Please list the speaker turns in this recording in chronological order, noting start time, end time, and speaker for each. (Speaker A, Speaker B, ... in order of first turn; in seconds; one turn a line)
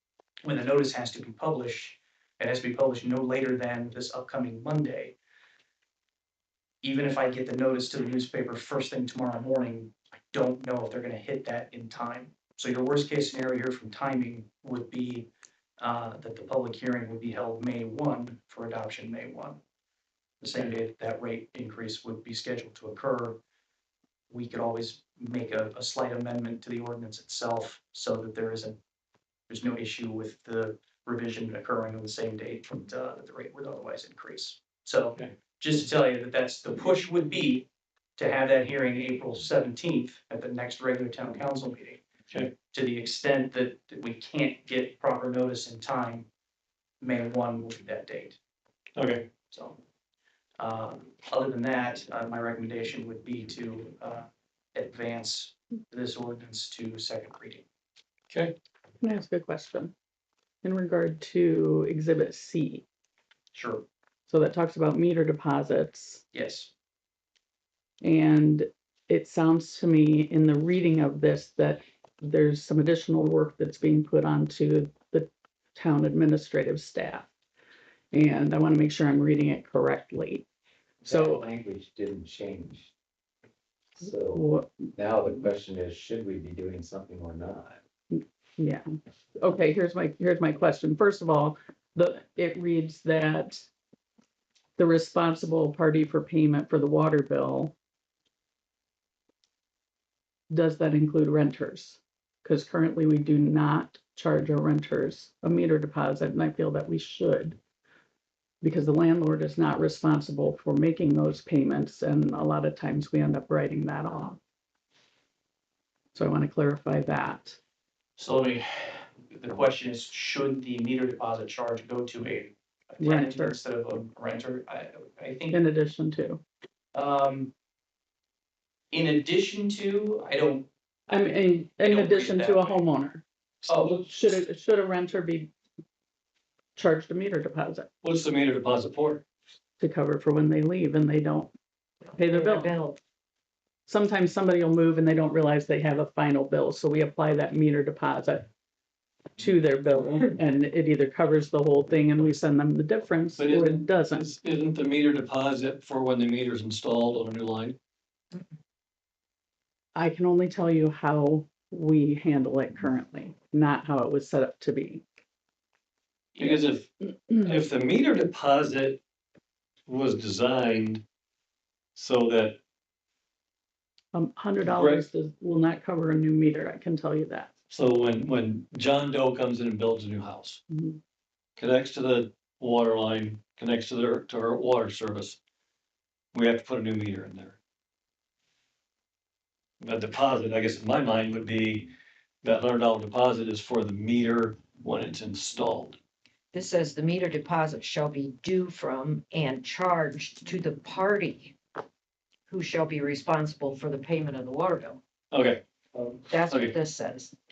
Speaker A: 0.4-5.1
Speaker A: 6.8-15.3
Speaker A: 15.8-19.6
Speaker A: 20.4-23.4
Speaker A: 24.3-28.8
Speaker A: 29.5-42.0
Speaker A: 42.7-46.3
Speaker A: 47.0-48.4
Speaker B: 49.0-49.3
Speaker A: 49.5-49.8
Speaker A: 50.6-57.6
Speaker B: 58.3-58.5
Speaker C: 59.0-59.9
Speaker C: 60.6-62.9
Speaker A: 63.5-63.9
Speaker C: 64.3-66.2
Speaker A: 66.3-66.7
Speaker C: 68.0-77.3
Speaker C: 78.1-80.4
Speaker C: 81.0-81.4
Speaker D: 81.0-82.9
Speaker D: 84.0-87.8
Speaker C: 84.3-84.8
Speaker C: 88.1-93.7
Speaker C: 94.8-97.7
Speaker C: 100.5-107.6
Speaker C: 108.6-114.4
Speaker C: 116.1-117.6
Speaker A: 118.2-125.6
Speaker C: 123.0-123.6
Speaker C: 125.5-126.4
Speaker A: 126.9-127.5
Speaker A: 128.9-130.7
Speaker C: 131.1-133.2
Speaker A: 131.8-132.8
Speaker A: 133.7-134.0
Speaker C: 133.7-135.5
Speaker C: 136.8-137.9
Speaker B: 138.0-139.2
Speaker C: 139.8-141.5
Speaker E: 142.1-143.0
Speaker C: 142.2-142.8
Speaker C: 143.9-148.5
Speaker C: 149.4-154.3
Speaker B: 153.4-157.8
Speaker C: 159.9-165.0
Speaker B: 166.4-169.0
Speaker C: 167.1-167.6
Speaker B: 169.9-171.0
Speaker B: 171.9-172.6
Speaker C: 174.1-177.5
Speaker B: 174.6-175.1
Speaker B: 177.7-180.6
Speaker C: 180.7-181.0
Speaker B: 181.6-185.4
Speaker B: 186.3-187.6
Speaker B: 189.8-196.0
Speaker E: 196.5-201.6
Speaker E: 202.5-205.0
Speaker B: 205.3-205.6
Speaker D: 205.9-206.2
Speaker E: 206.3-207.3
Speaker B: 206.5-206.8